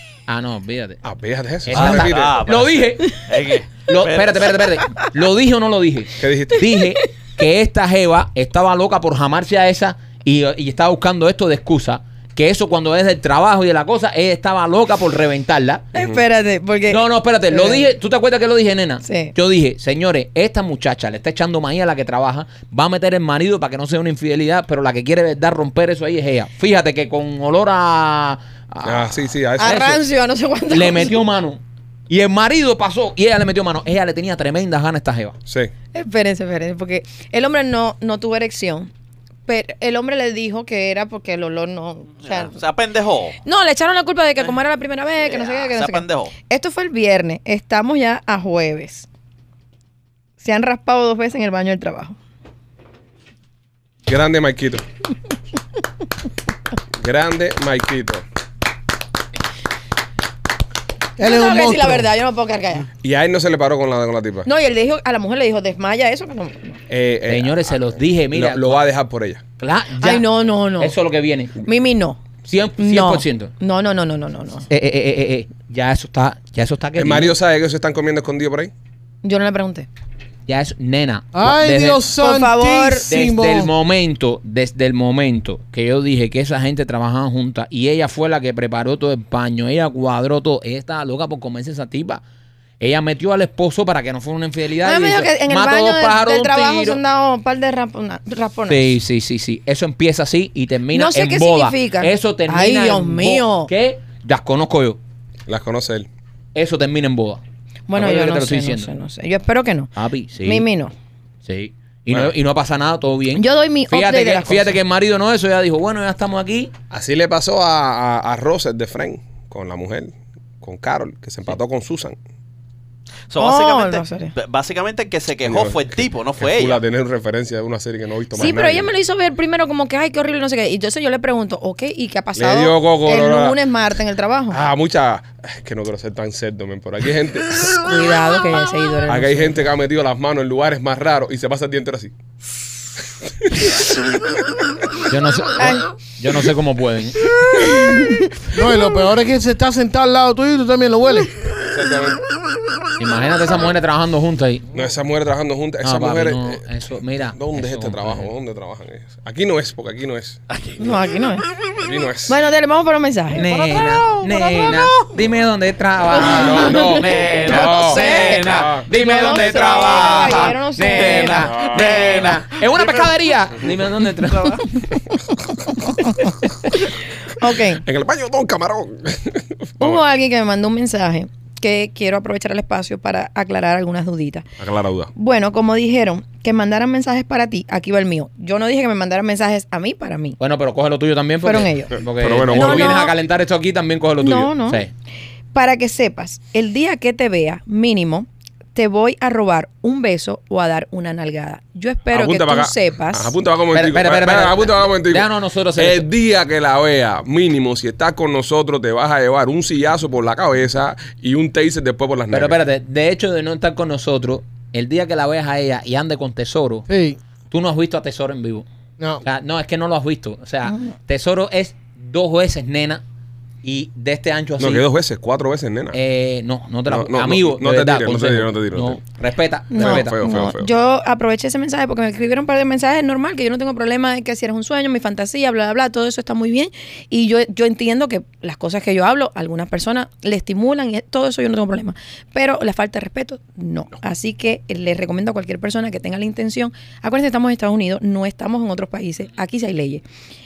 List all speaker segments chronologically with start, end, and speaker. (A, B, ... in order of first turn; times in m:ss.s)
0:00.3-0:01.0 A
0:01.0-0:02.4 B
0:01.6-0:03.2 A
0:01.7-0:04.5 C
0:03.9-0:15.9 A
0:06.2-0:06.7 B
0:15.9-0:17.8 D
0:16.9-0:30.0 A
0:19.0-0:19.3 D
0:28.8-0:30.0 B
0:29.6-0:31.2 D
0:30.7-0:35.4 A
0:35.9-0:38.9 D
0:39.5-0:42.6 D
0:42.2-0:43.4 C
0:43.4-0:49.1 D
0:45.2-0:46.3 C
0:50.4-0:52.2 D
0:54.0-0:54.8 B
0:57.0-0:58.2 B
1:01.2-1:02.1 E
1:01.2-1:02.9 D
1:03.0-1:04.5 B
1:04.4-1:06.8 D
1:06.9-1:09.4 B
1:07.3-1:08.8 A
1:09.6-1:11.6 A
1:10.0-1:11.0 D
1:11.6-1:14.7 D
1:12.4-1:13.5 A
1:14.7-1:17.3 A
1:17.0-1:18.7 B
1:19.2-1:19.9 D
1:20.5-1:22.1 A
1:21.3-1:23.7 E
1:22.2-1:23.1 D
1:23.1-1:32.2 A
1:32.8-1:37.0 A
1:34.8-1:38.9 D
1:38.7-1:45.0 A
1:40.9-1:43.7 D
1:45.5-1:46.1 B
1:46.5-1:47.4 A
1:47.9-1:50.9 D
1:47.9-1:48.9 A
1:49.9-1:50.6 A
1:51.4-1:56.7 A
1:53.4-1:54.8 D
1:56.9-2:02.2 B
2:03.3-2:06.8 C
2:03.4-2:04.3 D
2:05.4-2:08.9 B
2:08.4-2:14.6 D
2:12.4-2:13.6 B
2:14.5-2:17.7 B
2:17.8-2:19.6 D
2:19.1-2:22.1 B
2:25.1-2:27.3 A
2:25.6-2:25.8 D
2:28.5-2:31.4 E
2:31.6-2:32.2 B
2:33.0-2:34.7 A
2:34.7-2:36.6 B
2:35.8-2:38.3 A
2:37.3-2:40.4 B
2:40.8-2:41.5 D
2:41.8-2:42.4 B
2:42.3-2:43.5 D
2:43.3-2:55.0 A
2:43.4-2:44.5 E
2:46.2-2:52.3 D
2:46.2-2:48.9 B
2:51.3-2:52.1 B
2:57.4-2:57.8 D
2:57.8-3:00.0 B
2:59.8-3:04.5 D
3:04.6-3:05.1 B
3:05.1-3:10.4 D
3:10.4-3:14.9 A
3:11.4-3:12.0 D
3:12.0-3:13.0 B
3:12.5-3:13.1 D
3:14.2-3:14.8 D
3:15.5-3:23.3 D
3:22.1-3:32.6 B
3:23.7-3:26.0 A
3:32.3-3:36.8 A
3:36.9-3:37.2 E
3:37.5-3:38.6 A
3:39.2-3:43.0 A
3:40.6-3:40.9 D
3:43.6-3:44.8 A
3:44.6-3:46.0 B
3:45.9-3:50.2 A
3:46.9-3:49.0 B
3:49.7-4:10.0 D
3:49.7-3:50.7 B